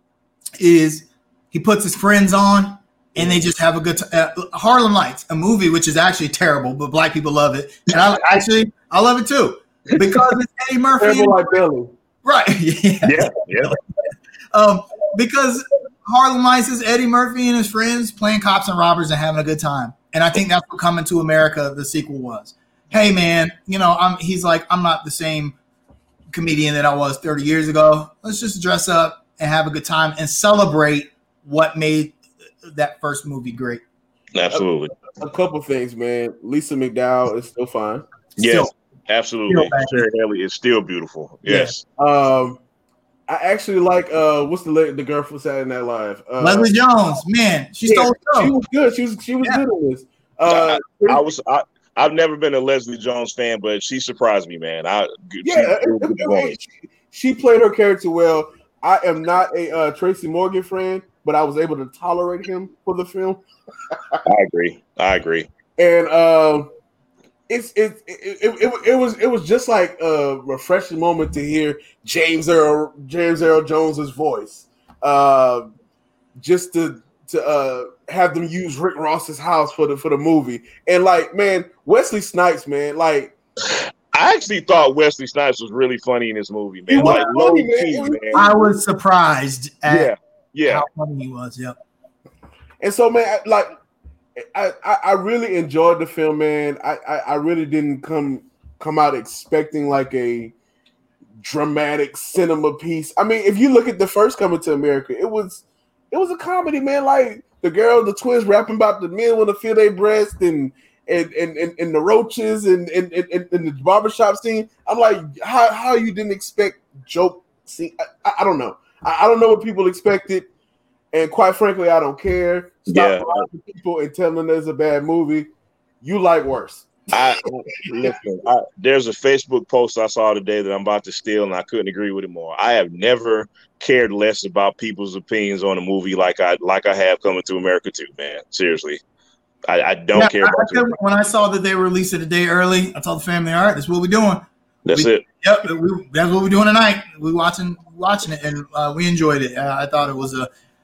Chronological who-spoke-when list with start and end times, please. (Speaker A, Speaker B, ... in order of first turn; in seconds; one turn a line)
Speaker A: 0.6-11.4
Speaker B: 9.9-10.4
Speaker C: 11.0-11.9
Speaker A: 12.2-13.8
Speaker B: 13.0-13.8
Speaker A: 14.5-25.6
Speaker A: 26.3-33.8
Speaker B: 34.3-34.9
Speaker C: 35.2-38.0
Speaker A: 38.4-38.7
Speaker B: 38.4-41.8
Speaker A: 39.5-40.1
Speaker A: 41.5-41.8
Speaker C: 42.0-42.6
Speaker C: 43.3-46.7
Speaker A: 46.4-48.5
Speaker C: 47.9-51.2
Speaker B: 50.5-56.6
Speaker C: 55.4-63.4
Speaker C: 63.9-64.2
Speaker B: 64.2-65.5
Speaker C: 65.8-66.7
Speaker C: 67.5-75.7
Speaker C: 76.4-83.3
Speaker B: 83.7-88.5
Speaker C: 86.9-88.8
Speaker A: 87.0-87.3
Speaker A: 88.3-90.1
Speaker B: 89.9-90.9
Speaker A: 90.7-91.8
Speaker C: 92.8-93.7
Speaker C: 94.4-100.5
Speaker C: 101.4-120.5
Speaker C: 121.1-125.5
Speaker B: 122.9-123.5
Speaker C: 126.0-127.0
Speaker B: 127.1-139.0
Speaker B: 139.7-140.9
Speaker A: 140.1-150.5
Speaker B: 144.8-145.2